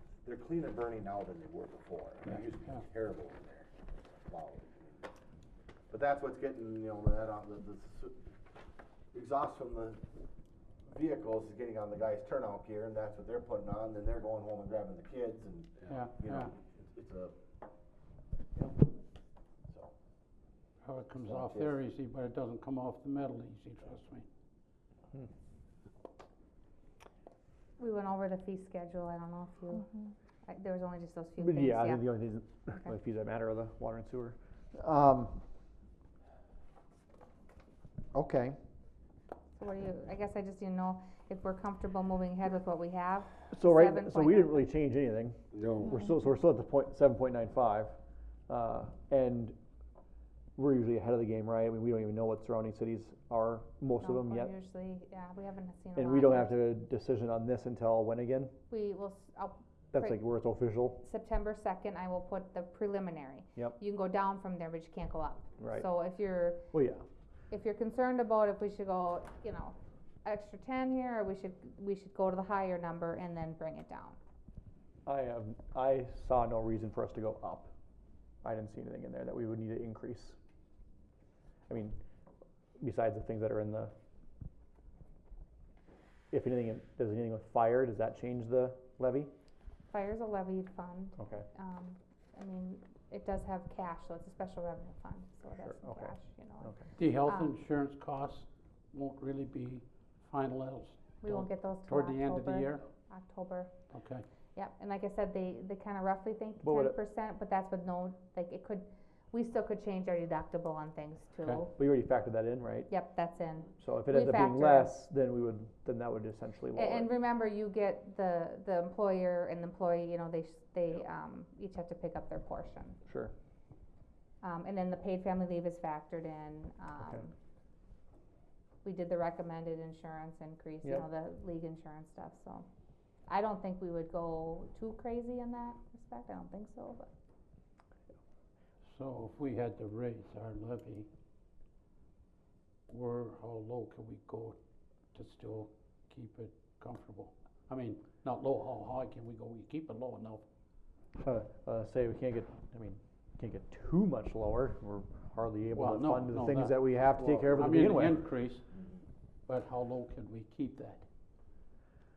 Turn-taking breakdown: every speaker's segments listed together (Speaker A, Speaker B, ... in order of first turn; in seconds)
Speaker A: 0.2-3.7, 4.3-5.1, 5.9-8.2, 9.1-10.0, 10.9-17.3, 21.2-21.8, 157.2-158.1
Speaker B: 15.9-16.5, 20.8-24.2, 97.0-102.8, 103.9-104.2, 138.8-141.1, 142.9-144.6, 145.1-150.4, 155.8-156.8, 157.5-158.7, 159.5-161.0
Speaker C: 27.8-29.9, 30.4-32.1, 39.6-44.6, 54.0-56.6, 58.7-60.2, 61.0-66.7, 67.5-74.2, 89.9-97.5, 101.2-103.7, 104.5-111.7, 112.9-114.9, 116.7-123.0, 124.4-127.3, 128.8-132.7, 133.3-137.1
Speaker D: 31.4-35.4, 38.1-38.6, 43.5-47.9, 48.5-49.6, 50.5-54.5, 56.0-58.5, 59.9-61.0, 65.6-65.9, 66.7-67.0, 75.0-77.7, 78.4-80.4, 81.7-82.0, 82.8-83.9, 86.3-89.3, 91.2-91.5, 95.6-96.9, 106.6-107.0, 111.7-112.9, 113.8-117.1, 123.0-123.3, 151.2-158.2